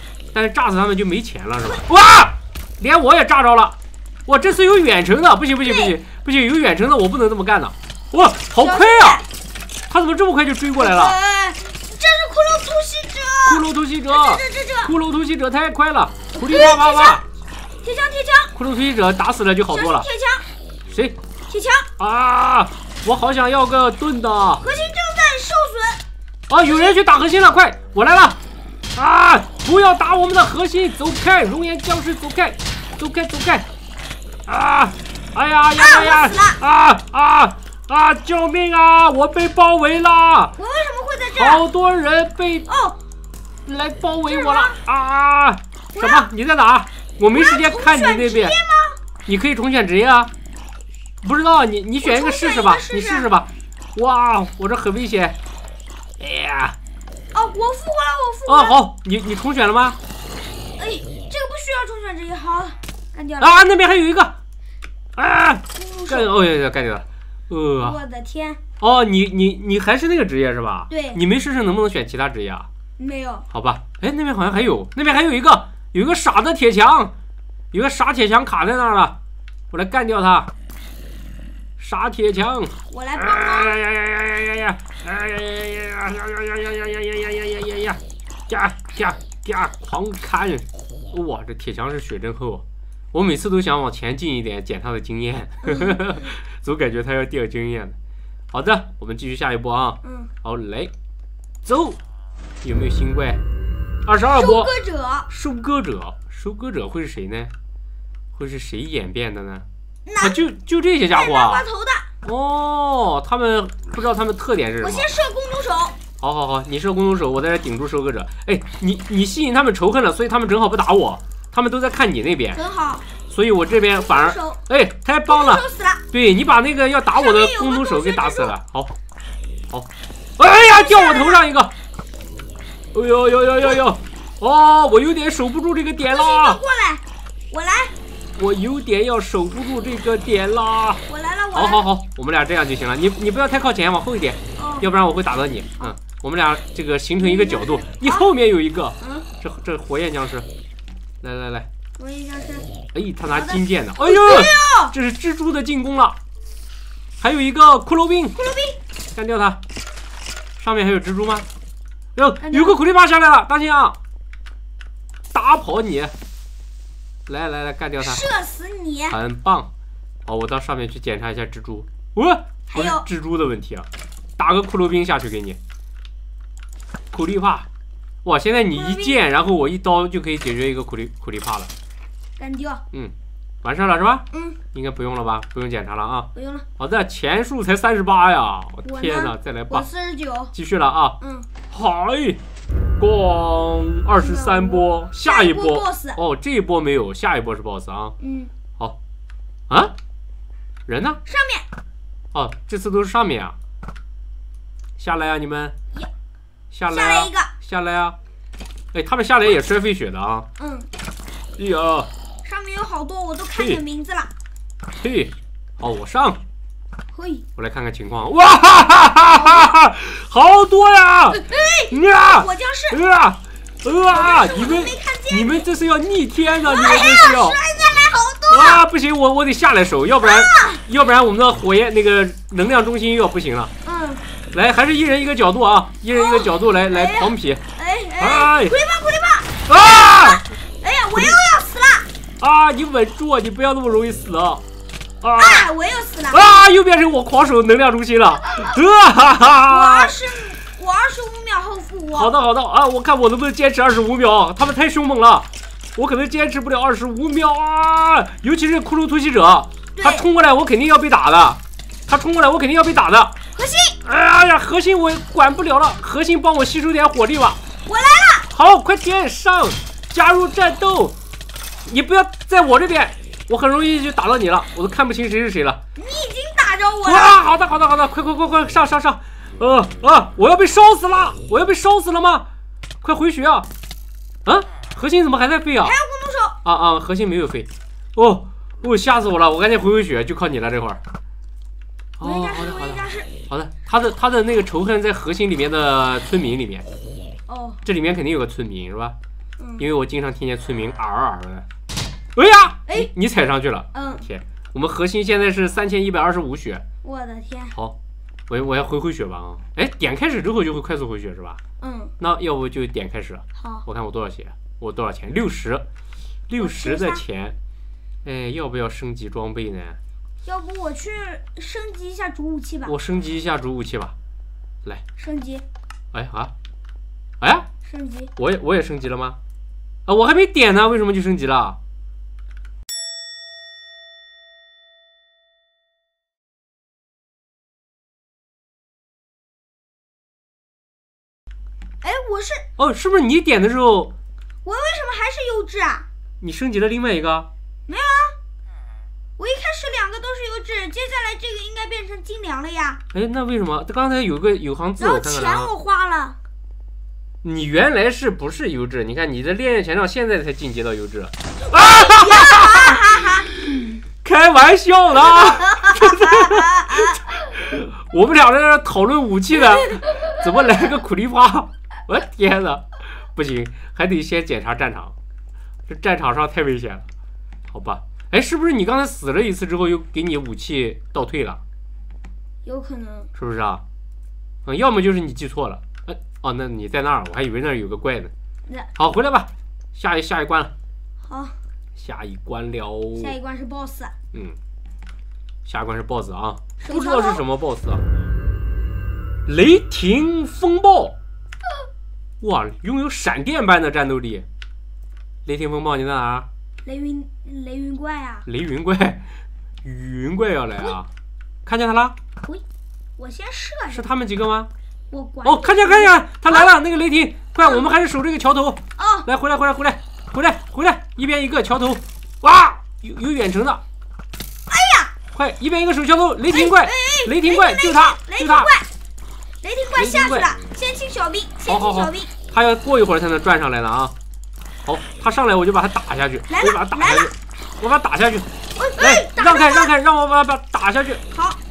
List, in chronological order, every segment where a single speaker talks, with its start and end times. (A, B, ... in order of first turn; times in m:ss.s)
0:00.3-0:09.2 A
0:05.6-0:05.9 B
0:08.6-0:09.3 B
0:09.9-0:11.2 A
0:10.8-0:15.0 B
0:13.4-0:17.2 A
0:16.3-0:17.2 B
0:17.8-0:18.5 B
0:18.6-0:20.1 A
0:19.7-0:20.4 B
0:20.9-0:21.2 A
0:21.5-0:21.9 B
0:22.0-0:24.6 A
0:24.6-0:26.0 B
0:26.5-0:28.4 A
0:26.6-0:27.0 B
0:29.0-0:33.7 A
0:34.5-0:40.5 A
0:35.8-0:36.6 B
0:40.6-0:41.6 B
0:41.4-0:42.7 A
0:42.7-0:43.0 B
0:43.7-0:48.6 A
0:44.3-0:44.8 B
0:45.9-0:46.3 B
0:47.3-0:49.0 B
0:49.3-0:50.3 A
0:51.2-0:55.4 A
0:52.0-0:53.3 B
0:56.2-0:56.8 A
0:57.3-0:58.8 B
0:58.5-1:00.0 A
1:00.8-1:03.6 B
1:03.4-1:04.4 A
1:05.2-1:08.0 A
1:05.8-1:06.3 B
1:07.8-1:08.6 B
1:08.8-1:12.7 A
1:10.9-1:11.2 B
1:13.0-1:13.5 B
1:13.5-1:17.1 A
1:17.7-1:19.2 A
1:19.7-1:20.5 A
1:21.8-1:38.0 A
1:22.9-1:23.8 B
1:35.6-1:36.0 B
1:38.5-1:40.9 A
1:40.0-1:40.3 B
1:41.6-1:42.0 A
1:42.6-1:43.4 A
1:44.0-1:44.7 A
1:44.3-1:45.3 B
1:45.3-1:47.5 A
1:48.4-1:49.7 A
1:50.1-1:50.4 B
1:50.2-1:51.6 A
1:51.1-1:52.1 B
1:52.2-1:55.1 A
1:54.8-1:56.0 B
1:56.2-2:02.6 A
2:02.5-2:03.1 B
2:03.3-2:08.9 A
2:03.9-2:04.6 B
2:05.3-2:06.0 B
2:07.1-2:08.6 B
2:09.7-2:11.7 A
2:10.4-2:11.4 B
2:12.9-2:16.6 A
2:16.1-2:17.9 B
2:18.4-2:21.0 A
2:21.1-2:21.9 B
2:21.5-2:30.5 A
2:24.6-2:24.9 B
2:27.2-2:28.3 B
2:29.0-2:29.3 B
2:31.2-2:31.7 A
2:32.0-2:32.7 B
2:32.9-2:36.2 A
2:33.3-2:35.0 B
2:37.2-2:38.4 A
2:38.3-2:38.8 B
2:39.2-2:39.6 A
2:40.6-2:41.5 A
2:42.2-2:44.0 A
2:42.4-2:42.8 B
2:45.3-2:46.1 A
2:47.3-2:48.2 A
2:48.0-2:49.2 B
2:49.1-2:49.7 A
2:50.3-2:53.9 A
2:52.7-2:53.1 B
2:54.4-2:55.6 A
2:57.1-2:57.7 A
2:58.2-3:01.7 A
2:58.7-2:59.2 B
3:02.4-3:02.8 B
3:02.9-3:09.9 A
3:04.3-3:04.6 B
3:06.3-3:06.7 B
3:08.8-3:10.5 B
3:10.5-3:11.2 A
3:11.2-3:11.5 B
3:11.7-3:12.4 A
3:13.0-3:18.2 A
3:14.2-3:16.2 B
3:18.2-3:18.5 B
3:20.9-3:21.2 A
3:21.3-3:21.7 B
3:22.3-3:23.6 A
3:25.0-3:25.8 A
3:26.7-3:28.2 A
3:26.9-3:27.5 B
3:28.9-3:30.5 A
3:30.6-3:30.9 B
3:31.6-3:32.1 A
3:32.4-3:34.3 B
3:33.5-3:33.8 A
3:35.0-3:36.4 A
3:37.1-3:37.5 B
3:37.6-3:47.6 A
3:39.3-3:39.7 B
3:41.3-3:43.0 B
3:44.1-3:45.7 B
3:46.6-3:48.8 B
3:48.5-3:53.7 A
3:50.2-3:50.8 B
3:53.8-3:54.2 B
3:54.5-3:57.6 A
3:56.1-4:02.1 B
3:58.2-3:58.8 A
3:59.7-4:00.4 A
4:02.4-4:04.6 A
4:05.2-4:05.7 A
4:05.4-4:06.6 B
4:06.3-4:10.1 A
4:08.5-4:08.8 B
4:09.7-4:12.3 B
4:12.1-4:23.3 A
4:20.0-4:20.3 B
4:23.6-4:24.0 B
4:24.0-4:27.6 A
4:27.9-4:28.5 B
4:28.5-4:31.2 A
4:31.9-4:35.8 A
4:36.0-4:37.4 B
4:37.0-4:42.5 A
4:43.0-4:43.7 A
4:44.4-4:46.0 A
4:45.8-4:46.6 B
4:46.6-4:51.0 A
4:52.2-4:56.9 A
4:52.2-4:53.3 B
4:57.5-4:57.8 B
4:57.8-4:59.2 A
4:59.6-4:59.9 B
4:59.8-5:01.7 A
5:02.4-5:06.8 A
5:03.9-5:04.3 B
5:07.0-5:07.8 B
5:08.5-5:11.6 A
5:11.8-5:12.1 B
5:12.2-5:15.8 A
5:13.6-5:13.8 B
5:16.5-5:17.6 A
5:16.6-5:17.2 B
5:18.2-5:20.0 A
5:20.4-5:22.9 B
5:22.9-5:24.1 A
5:25.2-5:25.6 B
5:26.1-5:26.5 A
5:27.4-5:27.7 A
5:27.8-5:28.3 B
5:28.4-5:29.4 A
5:30.1-5:31.8 A
5:42.0-5:42.7 B
5:42.8-5:44.1 A
5:44.6-5:46.1 B
5:46.4-5:47.5 A
5:47.9-5:48.4 B
5:49.4-5:53.0 B
5:53.1-5:55.7 A
5:55.0-5:56.4 B
5:57.4-6:03.0 A
6:01.6-6:03.5 B
6:04.2-6:15.1 A
6:05.6-6:07.2 B
6:09.6-6:10.4 B
6:15.9-6:17.1 A
6:17.7-6:21.6 A
6:22.6-6:23.3 B
6:23.4-6:23.8 A
6:24.6-6:28.3 A
6:29.0-6:30.7 A
6:31.2-6:31.6 B
6:32.0-6:33.4 A
6:33.2-6:34.1 B
6:35.7-6:38.0 A
6:36.8-6:37.4 B
6:39.5-6:41.2 A
6:42.4-6:44.5 A
6:45.5-6:46.5 A
6:46.8-6:48.5 B
6:48.5-6:49.2 A
6:49.8-6:51.1 A
6:51.7-6:52.2 A
6:53.2-6:54.1 B
6:53.9-6:54.7 A
6:55.1-6:56.7 B
6:55.4-7:03.8 A
6:59.0-6:59.3 B
7:04.7-7:05.1 B
7:05.3-7:08.7 A
7:06.5-7:08.9 B
7:09.6-7:12.3 B
7:10.0-7:10.5 A
7:11.7-7:14.1 A
7:14.9-7:18.5 A
7:16.5-7:17.3 B
7:18.8-7:19.9 B
7:19.0-7:21.2 A
7:21.3-7:21.6 B